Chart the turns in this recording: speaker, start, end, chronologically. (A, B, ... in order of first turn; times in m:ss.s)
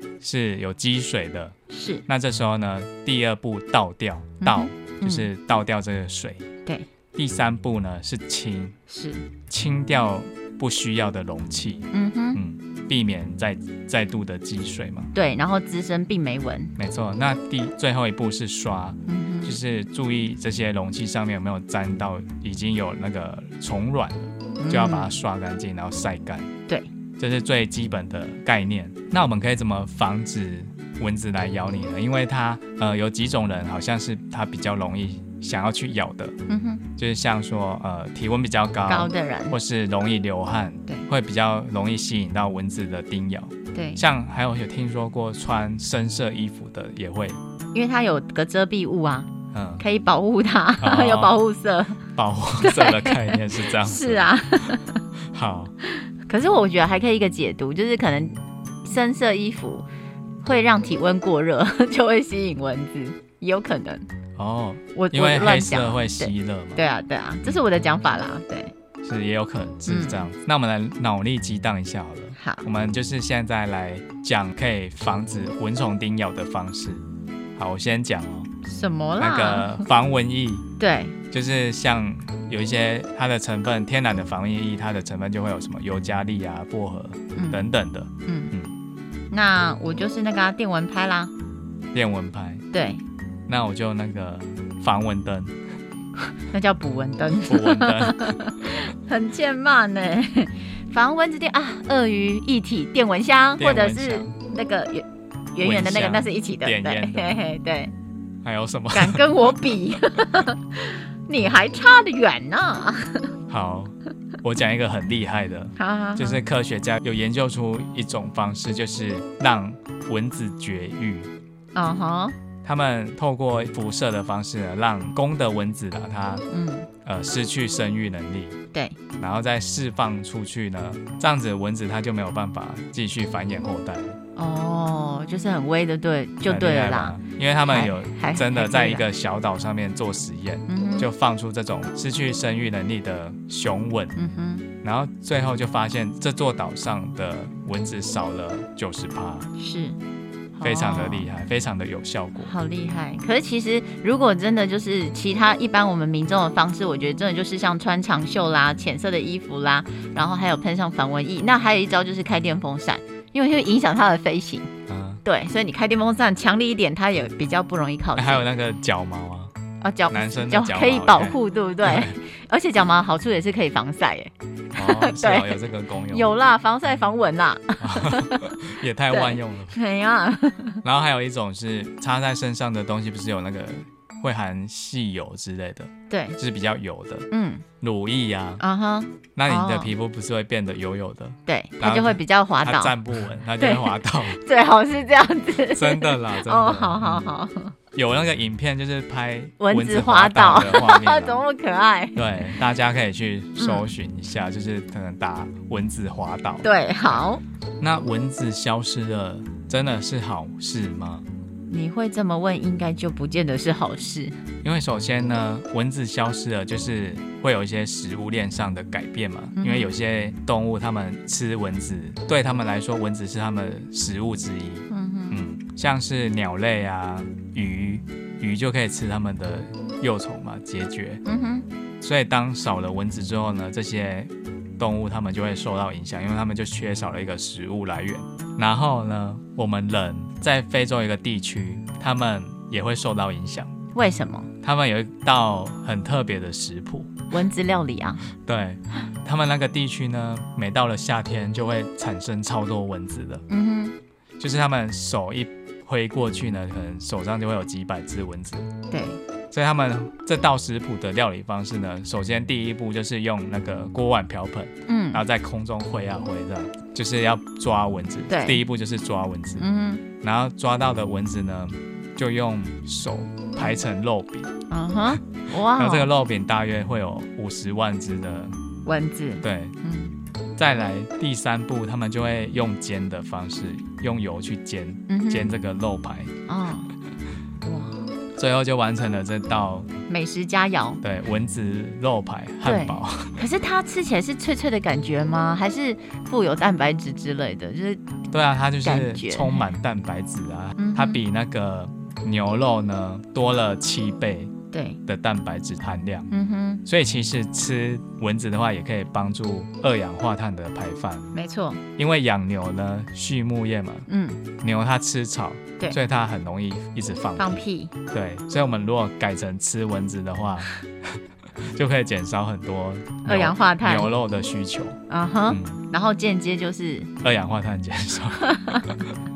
0:00.2-0:01.5 A
0:01.7-0:02.0 B
0:02.1-0:06.4 A
0:04.4-0:05.3 B
0:07.1-0:08.8 A
0:08.9-0:09.2 B
0:09.5-0:15.1 A
0:11.9-0:12.4 B
0:15.1-0:16.7 B
0:16.8-0:26.5 A
0:19.0-0:19.5 B
0:24.6-0:25.1 B
0:27.2-0:36.3 A
0:36.5-0:36.8 B
0:37.0-0:47.4 A
0:38.9-0:39.6 B
0:43.7-0:44.0 B
0:47.7-0:52.0 B
0:49.5-0:49.8 A
0:50.8-0:51.4 A
0:52.2-0:54.3 A
0:52.6-0:55.0 B
0:55.3-0:55.7 A
0:56.2-0:59.8 B
1:00.4-1:04.0 B
1:04.4-1:06.8 A
1:04.9-1:08.7 B
1:09.0-1:17.0 A
1:09.9-1:10.3 B
1:12.4-1:12.6 B
1:17.6-1:18.5 A
1:18.6-1:19.8 B
1:19.2-1:20.6 A
1:20.8-1:21.2 B
1:21.3-1:28.7 A
1:27.3-1:27.6 B
1:28.2-1:28.5 B
1:29.3-1:31.3 B
1:31.9-1:32.6 A
1:32.7-1:33.0 B
1:33.5-1:35.5 A
1:36.5-1:47.9 B
1:37.5-1:38.4 A
1:43.6-1:44.3 A
1:45.6-1:47.4 A
1:48.4-1:49.5 A
1:48.9-1:53.3 B
1:53.5-2:01.3 A
1:55.8-1:56.4 B
2:01.7-2:02.4 B
2:02.6-2:06.4 A
2:06.5-2:06.9 B
2:07.0-2:08.6 A
2:09.2-2:14.2 A
2:14.4-2:19.0 B
2:16.4-2:24.2 A
2:20.7-2:21.1 B
2:24.2-2:24.7 B
2:24.8-2:29.5 A
2:29.6-2:30.0 B
2:30.5-2:31.3 B
2:30.6-2:32.5 A
2:32.4-2:44.7 B
2:44.9-2:45.2 A
2:45.2-2:48.5 B
2:48.2-2:49.5 A
2:49.8-2:58.6 B
2:50.1-2:52.1 A
2:54.7-2:56.3 A
2:57.8-2:59.8 A
2:59.1-3:00.8 B
3:00.8-3:07.3 A
3:06.1-3:06.4 B
3:07.3-3:07.6 B
3:07.8-3:08.6 A
3:08.6-3:09.9 B
3:09.3-3:14.4 A
3:11.4-3:13.0 B
3:13.6-3:17.7 B
3:15.7-3:17.2 A
3:17.9-3:21.4 A
3:19.6-3:22.5 B
3:22.2-3:27.2 A
3:23.6-3:23.9 B
3:26.6-3:27.4 B
3:27.8-3:31.2 A
3:31.7-3:34.4 B
3:34.6-3:51.2 A
3:39.6-3:39.9 B
3:44.9-3:45.4 B
3:51.2-3:51.7 B
3:52.0-4:03.7 A
4:03.9-4:04.5 B
4:04.6-4:07.1 A
4:07.3-4:08.2 B
4:08.4-4:13.4 A
4:13.5-4:14.0 B
4:14.4-4:18.7 A
4:18.9-4:19.2 B
4:19.5-4:29.7 A
4:24.9-4:25.2 B
4:28.3-4:28.6 B
4:29.6-4:30.0 B
4:30.2-4:34.5 A
4:34.7-4:36.1 B
4:35.7-4:38.5 A
4:38.8-4:40.1 B
4:39.4-4:39.8 A
4:40.6-4:46.3 A
4:45.1-4:45.6 B
4:46.5-4:46.9 B
4:47.6-4:48.0 B
4:48.4-4:49.9 A
4:50.1-4:51.0 B
4:51.0-4:53.4 A
4:52.6-4:58.0 B
4:58.3-5:04.5 A
4:58.8-4:59.7 B
5:00.8-5:01.2 B
5:04.7-5:05.0 B
5:05.1-5:06.3 A
5:06.3-5:06.8 B
5:06.8-5:11.3 A
5:11.3-5:11.8 B
5:12.0-5:14.1 A
5:14.1-5:14.4 B
5:14.6-5:20.7 A
5:17.4-5:17.9 B
5:21.7-5:25.0 A
5:23.2-5:24.1 B
5:25.1-5:27.1 B
5:25.5-5:25.8 A
5:27.2-5:29.1 A
5:28.4-5:28.9 B